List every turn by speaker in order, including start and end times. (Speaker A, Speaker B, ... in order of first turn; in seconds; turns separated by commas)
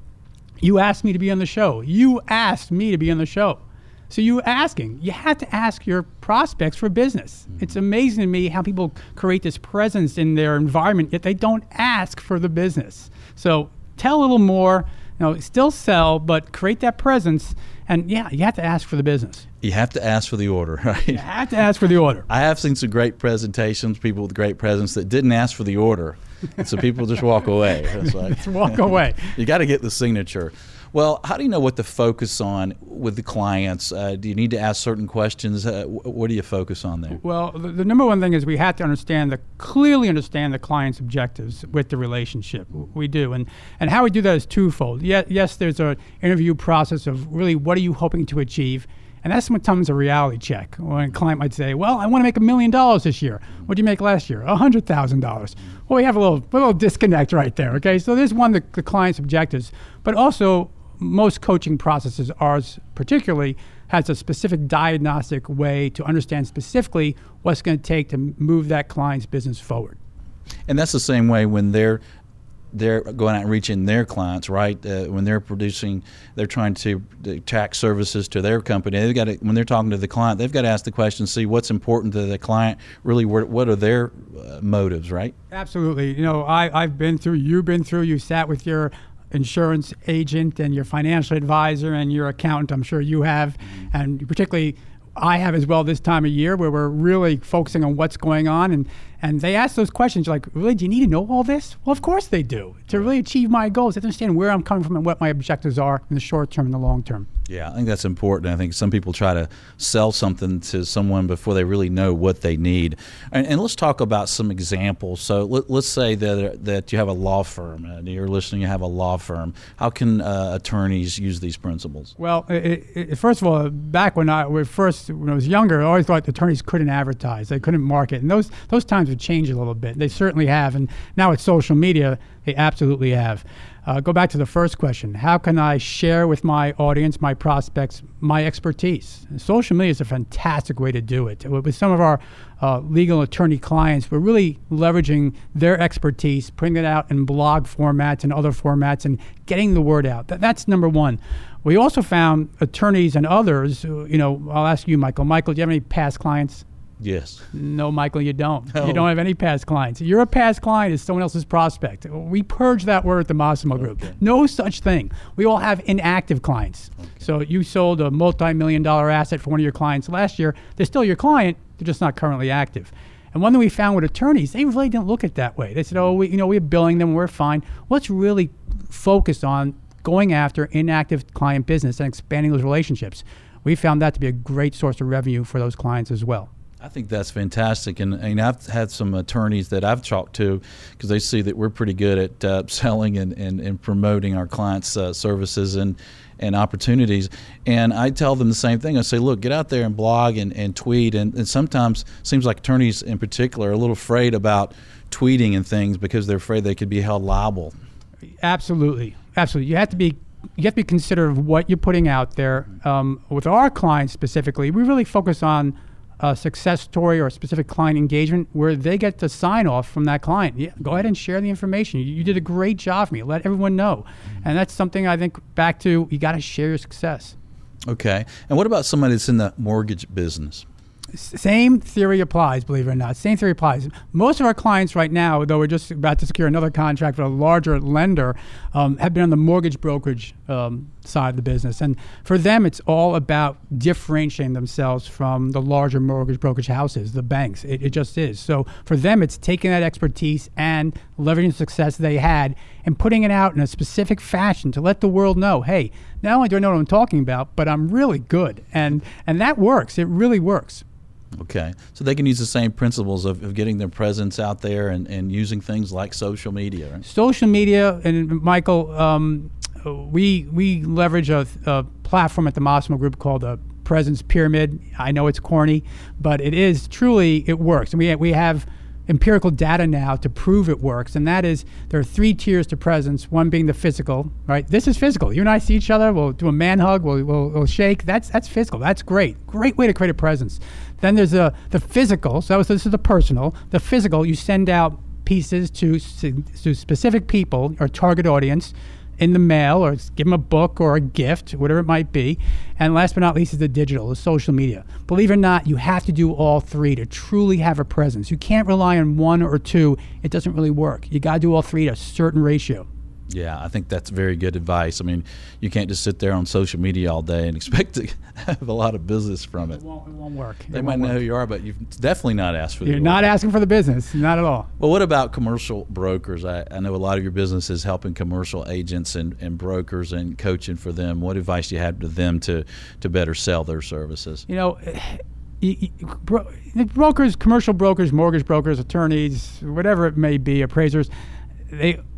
Speaker A: 0.6-19.4, Speaker B: 19.6-21.2, Speaker A: 21.1-22.3, Speaker B: 22.3-37.2, Speaker A: 28.0-29.3, Speaker A: 37.1-70.0, Speaker B: 70.7-72.0, Speaker B: 72.7-85.3, Speaker A: 85.5-107.3, Speaker B: 107.5-122.1, Speaker A: 122.2-156.6, Speaker B: 157.0-157.4, Speaker A: 157.5-186.5, Speaker B: 158.7-159.1, Speaker B: 186.8-207.7, Speaker A: 208.4-227.3, Speaker B: 227.9-230.7, Speaker A: 231.1-260.8, Speaker B: 261.4-267.0, Speaker A: 267.0-312.9, Speaker B: 313.3-319.8, Speaker A: 319.7-321.2, Speaker B: 320.7-323.2, Speaker A: 322.8-324.7, Speaker B: 324.8-334.4, Speaker A: 334.5-341.1, Speaker A: 341.7-342.0